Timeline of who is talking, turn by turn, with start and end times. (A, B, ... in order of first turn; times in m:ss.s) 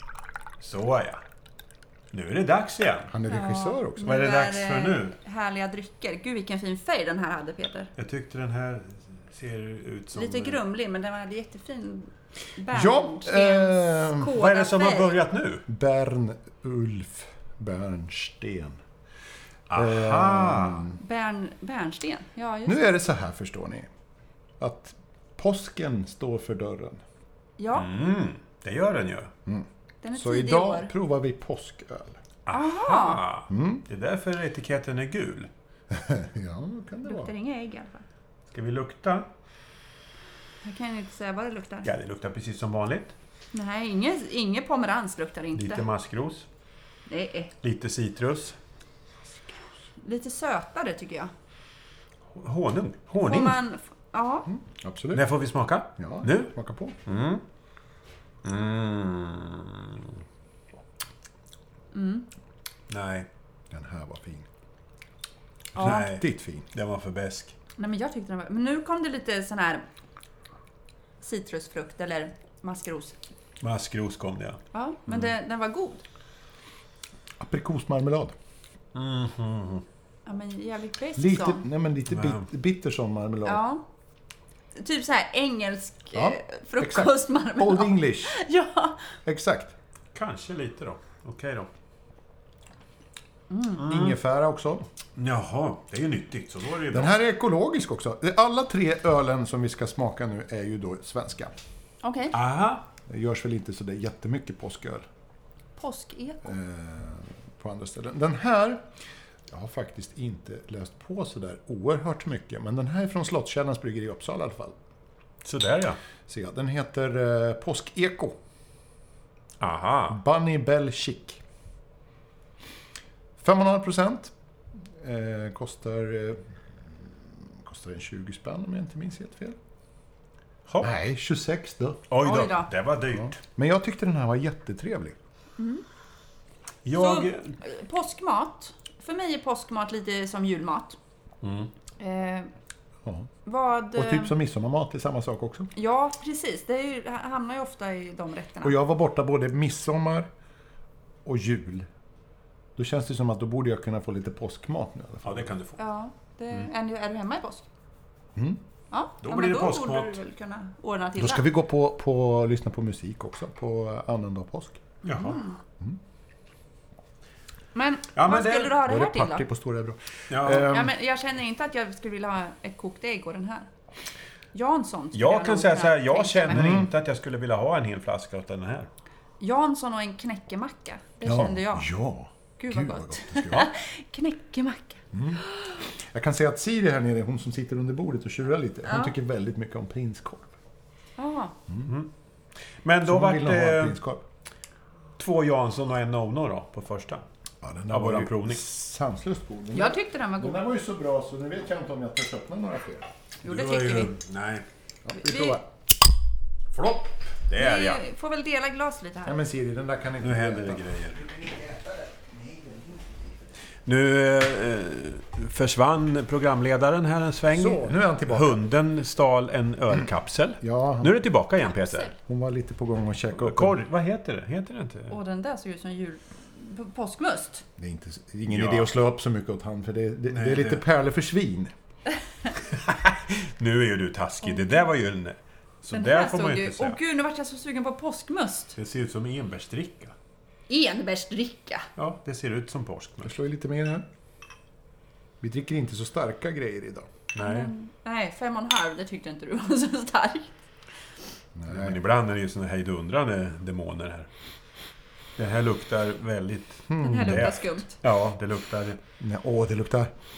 0:00.6-0:01.2 A
0:02.1-0:03.1 A
0:03.1-0:04.1 B
0:03.3-0:07.9 C
0:04.0-0:05.2 A
0:08.0-0:10.6 A
0:10.1-0:15.2 C
0:12.7-0:14.3 B
0:14.2-0:15.6 A
0:15.7-0:18.8 B
0:19.7-0:20.9 A
0:19.7-0:21.0 B
0:20.9-0:22.8 C
0:22.6-0:23.9 B
0:24.6-0:27.0 B
0:27.6-0:27.9 C
0:27.7-0:29.3 A
0:29.4-0:32.2 B
0:30.0-0:30.9 C
0:32.4-0:35.5 A
0:32.5-0:33.2 C
0:33.5-0:33.8 B
0:35.9-0:37.3 B
0:37.0-0:38.0 C
0:38.5-0:39.3 A
0:40.6-0:41.9 C
0:41.8-0:43.1 A
0:43.5-0:45.9 C
0:45.5-0:46.5 A
0:47.1-0:47.5 C
0:47.6-0:48.6 A
0:50.0-0:51.3 C
0:52.3-0:53.6 A
0:53.2-0:54.5 C
0:54.5-0:55.3 B
0:55.1-0:56.5 A
0:56.0-0:57.0 B
0:57.0-0:57.4 A
0:58.4-1:00.1 A
1:01.9-1:02.3 C
1:02.9-1:03.3 A
1:03.7-1:04.5 B
1:05.7-1:06.2 C
1:05.8-1:06.7 B
1:05.8-1:07.5 A
1:07.8-1:09.8 C
1:11.2-1:13.2 C
1:13.6-1:15.3 A
1:14.7-1:16.0 C
1:17.4-1:18.3 B
1:18.9-1:19.8 A
1:20.2-1:21.6 C
1:21.2-1:23.6 B
1:22.1-1:22.4 A
1:23.4-1:23.8 C
1:24.7-1:29.0 C
1:26.1-1:28.4 B
1:29.2-1:29.7 B
1:30.1-1:31.7 A
1:33.5-1:33.8 C
1:33.8-1:34.2 A
1:33.8-1:34.9 B
1:35.2-1:37.1 A
1:36.9-1:41.5 B
1:42.0-1:42.3 C
1:42.3-1:42.8 A
1:43.1-1:45.0 B
1:45.8-1:46.5 C
1:46.4-1:48.8 B
1:49.5-1:54.7 B
1:55.4-1:56.0 A
1:56.3-1:58.4 B
1:59.6-2:00.2 A
2:00.1-2:01.4 B
2:03.4-2:04.3 B
2:05.0-2:06.4 B
2:07.0-2:09.6 B
2:10.8-2:12.0 B
2:12.1-2:13.4 A
2:12.2-2:12.7 C
2:13.2-2:15.2 B
2:15.6-2:15.8 C
2:16.8-2:17.6 A
2:16.9-2:21.0 C
2:21.4-2:21.7 A
2:22.0-2:22.5 C
2:23.4-2:24.3 C
2:23.9-2:25.7 B
2:25.7-2:28.8 C
2:28.6-2:30.3 B
2:31.2-2:31.9 B
2:32.8-2:35.5 B
2:35.2-2:35.8 A
2:35.8-2:37.7 C
2:38.9-2:41.5 C
2:39.2-2:40.2 A
2:41.2-2:44.8 B
2:45.0-2:45.4 A
2:45.1-2:45.6 C
2:47.7-2:49.4 C
2:48.1-2:48.8 A
2:48.8-2:50.9 B
2:50.3-2:50.7 A
2:50.5-2:53.7 C
2:54.5-2:56.6 C
2:55.1-2:58.9 A
2:56.5-2:56.9 B
2:59.4-3:01.9 C
3:01.2-3:03.7 B
3:02.6-3:05.8 C
3:05.1-3:10.5 B
3:08.8-3:09.2 C
3:11.2-3:11.5 C
3:12.8-3:14.0 A
3:13.0-3:14.2 B
3:15.2-3:17.2 A
3:17.6-3:23.1 B
3:17.9-3:18.6 A
3:19.7-3:20.6 C
3:23.4-3:24.1 C
3:23.4-3:24.6 A
3:25.0-3:25.6 B
3:25.2-3:25.6 C
3:26.7-3:28.0 A
3:27.6-3:29.4 C
3:29.2-3:33.3 B
3:30.2-3:31.2 A
3:33.8-3:42.1 A
3:37.5-3:38.6 B
3:40.6-3:41.2 B
3:41.6-3:42.1 C
3:42.2-3:43.8 B
3:43.4-3:45.2 A
3:45.1-3:47.6 C
3:47.8-3:51.7 B
3:48.5-3:48.9 A
3:50.3-3:50.8 A
3:52.7-3:57.0 A
3:54.4-3:54.8 C
3:55.9-3:58.8 C
3:58.8-4:00.1 A
4:00.7-4:01.9 C
4:02.0-4:03.3 A
4:03.2-4:04.0 B
4:05.4-4:07.1 B
4:07.3-4:07.7 A
4:07.4-4:10.5 C
4:11.5-4:12.0 B
4:11.7-4:14.3 A
4:15.4-4:19.0 A
4:16.9-4:17.5 B
4:17.0-4:18.0 C
4:19.2-4:20.1 B